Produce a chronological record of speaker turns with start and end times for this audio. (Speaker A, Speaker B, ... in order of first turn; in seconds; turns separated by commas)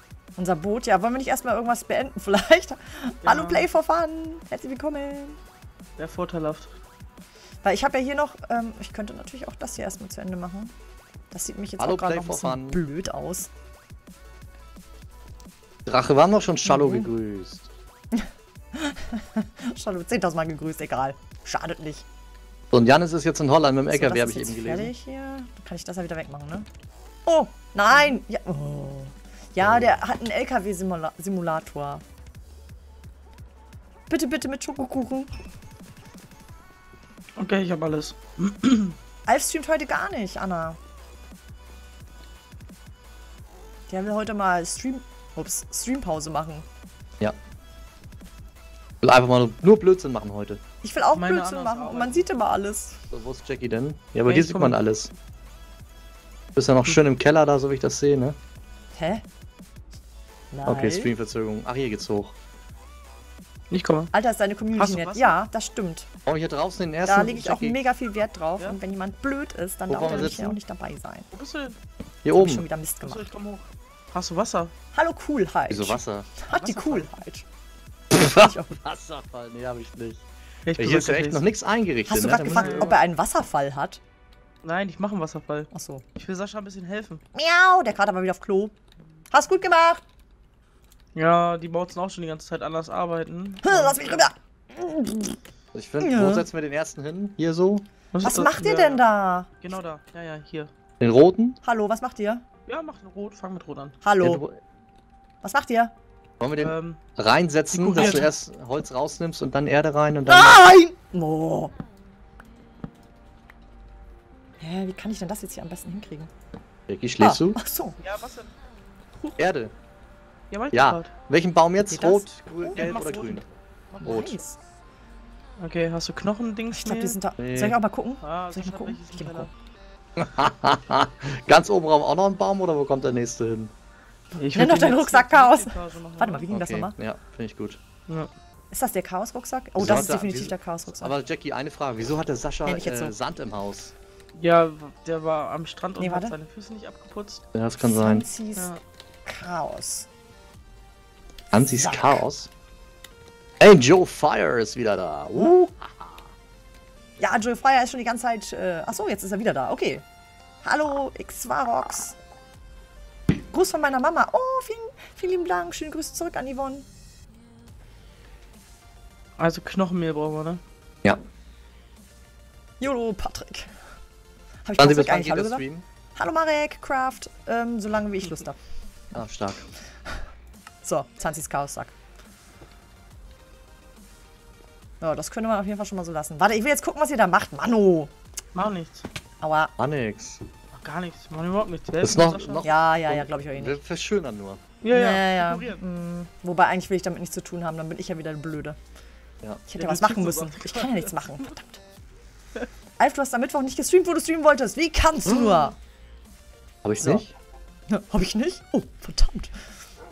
Speaker A: 0.4-5.4, Speaker B: 3.2-3.7, Speaker B: 6.0-6.8, Speaker A: 7.6-10.7, Speaker A: 11.3-13.5, Speaker C: 11.8-12.8, Speaker C: 15.9-17.7, Speaker A: 16.7-17.1, Speaker A: 18.1-22.0, Speaker C: 22.7-24.9, Speaker A: 23.9-26.7, Speaker A: 27.3-32.0, Speaker A: 34.1-35.3, Speaker B: 37.4-39.0, Speaker A: 39.3-40.8, Speaker A: 43.9-46.6, Speaker C: 49.0-50.6, Speaker A: 50.8-53.0, Speaker B: 51.1-52.3, Speaker C: 53.1-55.1, Speaker B: 54.2-54.8, Speaker C: 56.6-58.4, Speaker A: 58.9-59.2, Speaker A: 60.5-61.1, Speaker C: 60.7-62.3, Speaker B: 63.7-64.1, Speaker A: 64.1-66.1, Speaker B: 64.7-65.4, Speaker C: 66.3-67.8, Speaker A: 67.0-71.3, Speaker C: 69.9-70.6, Speaker B: 71.3-71.8, Speaker C: 72.2-72.7, Speaker A: 72.3-73.3, Speaker B: 73.0-74.7, Speaker A: 74.9-77.5, Speaker C: 75.7-76.4, Speaker B: 76.5-77.1, Speaker C: 78.1-80.2, Speaker A: 78.2-78.8, Speaker B: 80.7-81.5, Speaker C: 80.8-82.9, Speaker A: 82.1-84.0, Speaker B: 82.5-83.0, Speaker B: 84.6-87.2, Speaker A: 85.7-86.0, Speaker A: 87.3-88.7, Speaker A: 89.3-90.0, Speaker B: 91.2-94.3, Speaker A: 93.6-95.4, Speaker C: 95.7-97.8, Speaker A: 96.0-96.5, Speaker B: 98.1-99.0, Speaker A: 98.2-99.5, Speaker B: 99.6-100.7, Speaker C: 101.0-101.6, Speaker A: 101.6-102.4, Speaker B: 102.7-104.0, Speaker A: 104.0-104.4, Speaker C: 104.2-104.6, Speaker A: 105.4-105.9, Speaker C: 106.4-110.7, Speaker B: 106.6-107.0, Speaker B: 107.7-108.3, Speaker A: 108.0-108.3, Speaker A: 110.3-111.7, Speaker A: 114.6-116.3, Speaker C: 116.9-117.6, Speaker A: 117.2-118.0, Speaker B: 118.0-118.6, Speaker B: 119.2-119.4, Speaker C: 119.4-119.7, Speaker B: 120.5-121.1, Speaker C: 120.7-123.5, Speaker A: 121.9-123.0, Speaker B: 122.7-124.2, Speaker A: 124.0-124.6, Speaker C: 124.0-124.4, Speaker B: 125.6-127.2, Speaker A: 126.7-129.5, Speaker C: 127.4-127.8, Speaker B: 128.2-129.5, Speaker C: 130.2-133.7, Speaker B: 134.3-136.5, Speaker A: 134.6-136.9, Speaker C: 136.5-137.8, Speaker A: 138.7-141.2, Speaker C: 139.8-143.9, Speaker A: 142.7-143.2, Speaker B: 144.3-147.4, Speaker A: 146.0-146.4, Speaker C: 147.5-148.3, Speaker A: 147.8-150.1, Speaker B: 148.6-148.8, Speaker C: 151.5-152.5, Speaker A: 151.5-152.2, Speaker C: 153.6-156.1, Speaker A: 157.2-160.0, Speaker A: 160.6-162.2, Speaker A: 163.5-166.9, Speaker B: 169.4-170.6, Speaker A: 172.8-173.7, Speaker A: 174.7-175.6, Speaker C: 174.8-175.8, Speaker A: 176.2-178.6, Speaker C: 179.2-179.7, Speaker A: 180.8-181.9, Speaker A: 185.0-188.1, Speaker B: 188.5-189.1, Speaker A: 189.4-189.7, Speaker C: 189.8-190.4, Speaker B: 190.7-192.6, Speaker C: 192.0-194.6, Speaker A: 192.6-193.8, Speaker B: 194.8-195.8, Speaker A: 194.9-198.8, Speaker A: 199.7-201.8, Speaker B: 199.8-201.5, Speaker A: 203.0-205.8, Speaker C: 205.3-205.7, Speaker C: 206.8-207.3, Speaker A: 207.9-209.6